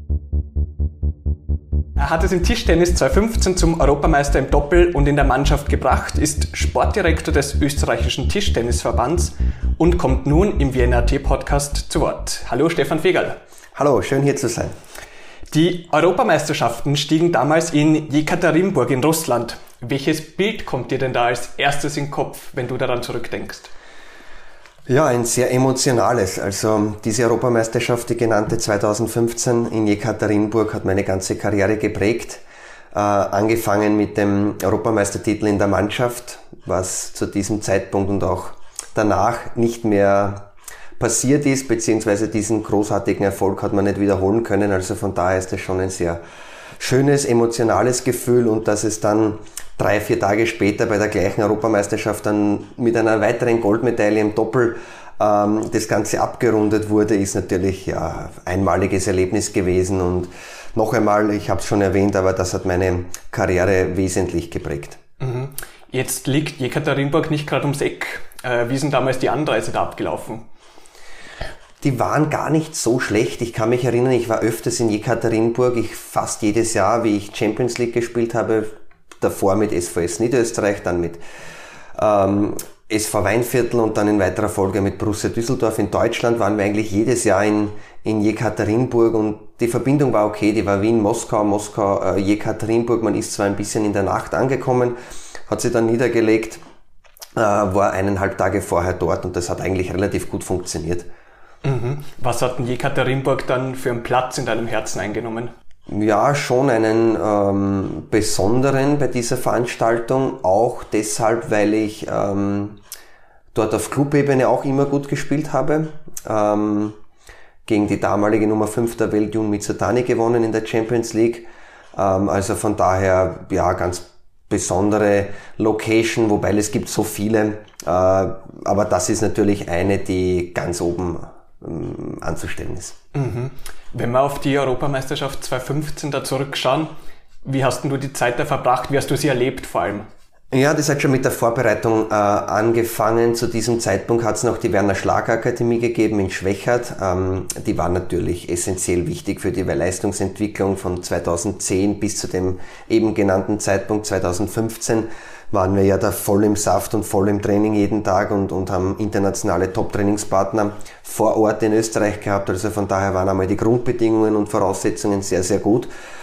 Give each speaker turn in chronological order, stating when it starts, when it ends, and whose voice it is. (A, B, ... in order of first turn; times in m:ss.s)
0:02.0-0:13.4 A
0:13.8-0:14.7 B
0:15.5-0:23.7 A
0:24.9-0:32.4 B
0:32.9-0:46.2 B
0:46.8-1:05.0 B
1:05.2-1:10.4 A
1:11.8-1:18.7 B
1:19.2-1:21.2 B
1:21.9-1:35.0 B
1:35.5-1:36.6 B
1:37.4-1:41.1 B
1:41.6-1:45.5 A
1:45.9-1:52.8 B
1:53.5-1:57.0 B
1:57.6-2:13.0 B
2:13.1-2:16.9 A
2:17.4-2:20.0 A
2:20.5-2:45.9 B